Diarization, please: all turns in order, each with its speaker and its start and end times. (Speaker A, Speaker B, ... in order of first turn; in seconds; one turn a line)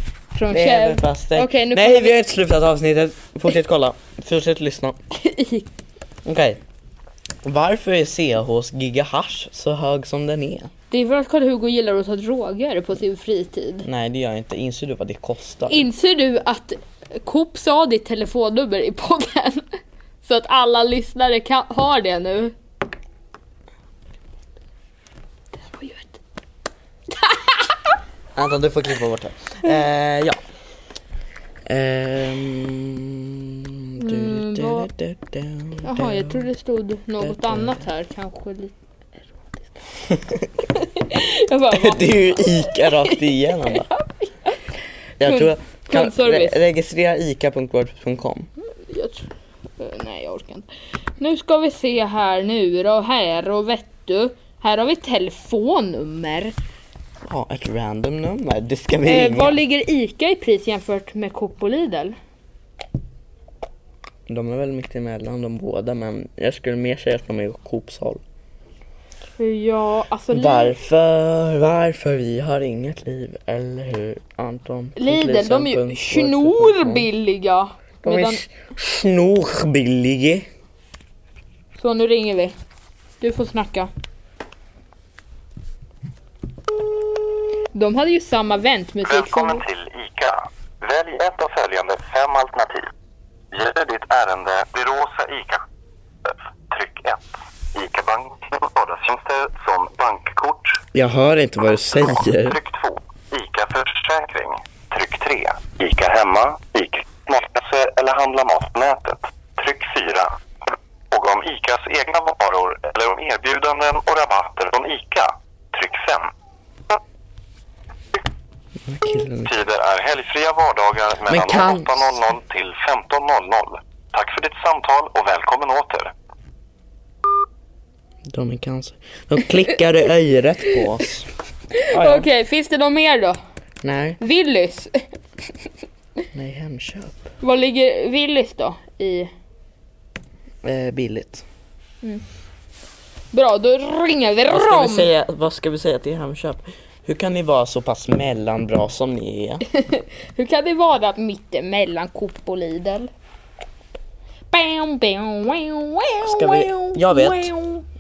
Speaker A: 0.3-2.2
Speaker B: 0.5-5.0
Speaker A: 5.2-5.7
Speaker B: 6.2-6.6
Speaker B: 7.4-10.7
Speaker A: 10.9-13.9
Speaker B: 13.8-15.8
Speaker A: 15.7-22.5
Speaker A: 25.6-26.2
Speaker A: 27.1-27.8
Speaker B: 28.3-30.4
Speaker B: 31.6-36.5
Speaker A: 34.0-34.9
Speaker A: 35.8-38.7
Speaker B: 37.2-37.8
Speaker A: 39.2-39.8
Speaker B: 40.1-40.5
Speaker A: 40.7-44.6
Speaker B: 41.7-43.9
Speaker B: 45.2-48.5
Speaker A: 45.2-46.6
Speaker A: 48.7-50.7
Speaker A: 51.2-56.5
Speaker B: 57.2-59.6
Speaker A: 59.0-62.1
Speaker B: 64.3-68.2
Speaker A: 69.4-70.7
Speaker B: 70.3-77.1
Speaker A: 75.0-78.5
Speaker B: 78.0-80.5
Speaker A: 81.8-82.5
Speaker A: 83.2-83.9
Speaker A: 87.7-89.6
Speaker C: 89.0-92.9
Speaker C: 93.5-95.6
Speaker C: 96.2-100.8
Speaker B: 100.9-102.6
Speaker C: 102.2-110.3
Speaker C: 111.1-116.3
Speaker B: 118.8-119.5
Speaker C: 119.4-126.1
Speaker B: 121.3-122.2
Speaker B: 128.3-131.3
Speaker A: 131.8-133.4
Speaker B: 131.9-132.3
Speaker B: 133.8-134.2
Speaker A: 134.2-135.0
Speaker B: 136.3-137.3
Speaker A: 137.4-139.3
Speaker B: 140.6-141.4
Speaker A: 143.3-145.1
Speaker B: 144.5-149.6
Speaker A: 149.7-153.1
Speaker A: 154.5-157.8
Speaker B: 156.2-157.5